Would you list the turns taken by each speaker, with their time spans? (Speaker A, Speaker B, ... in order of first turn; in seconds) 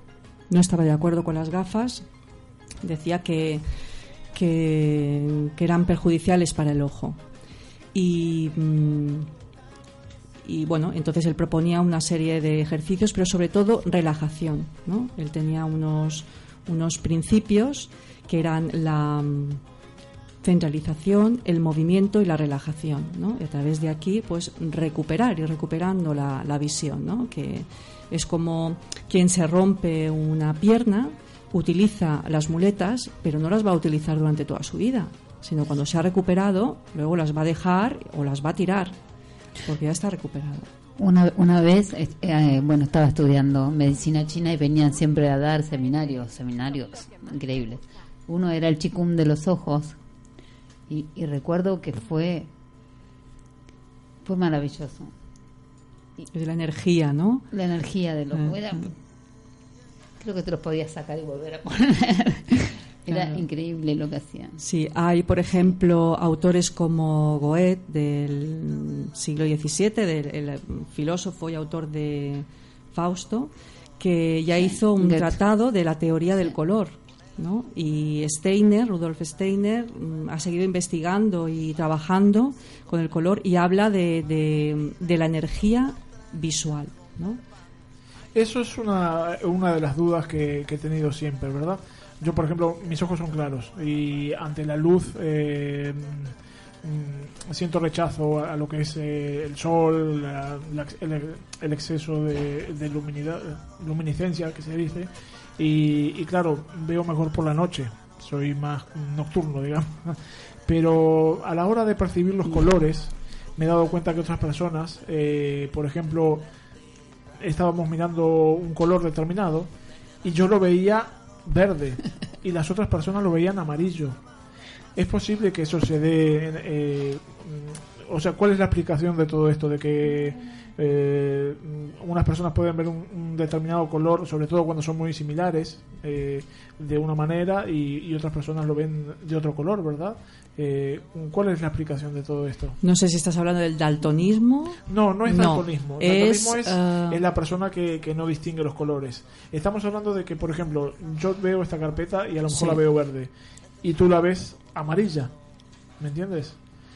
Speaker A: 0.5-2.0, 2.8-3.6, 4.3-7.2, 7.9-9.3, 10.4-19.6, 20.4-39.0, 39.6-40.7, 56.3-57.5, 58.3-58.9, 63.1-63.4, 64.6-87.4, 142.8-147.2, 152.5-152.8
Speaker B: 41.0-50.0, 50.9-52.5, 54.2-55.1, 57.5-58.9, 60.2-64.6, 74.5-75.4
Speaker C: 88.3-116.5, 117.4-119.7, 120.2-124.2, 125.0-142.8, 144.9-153.3, 153.8-155.3, 156.0-156.6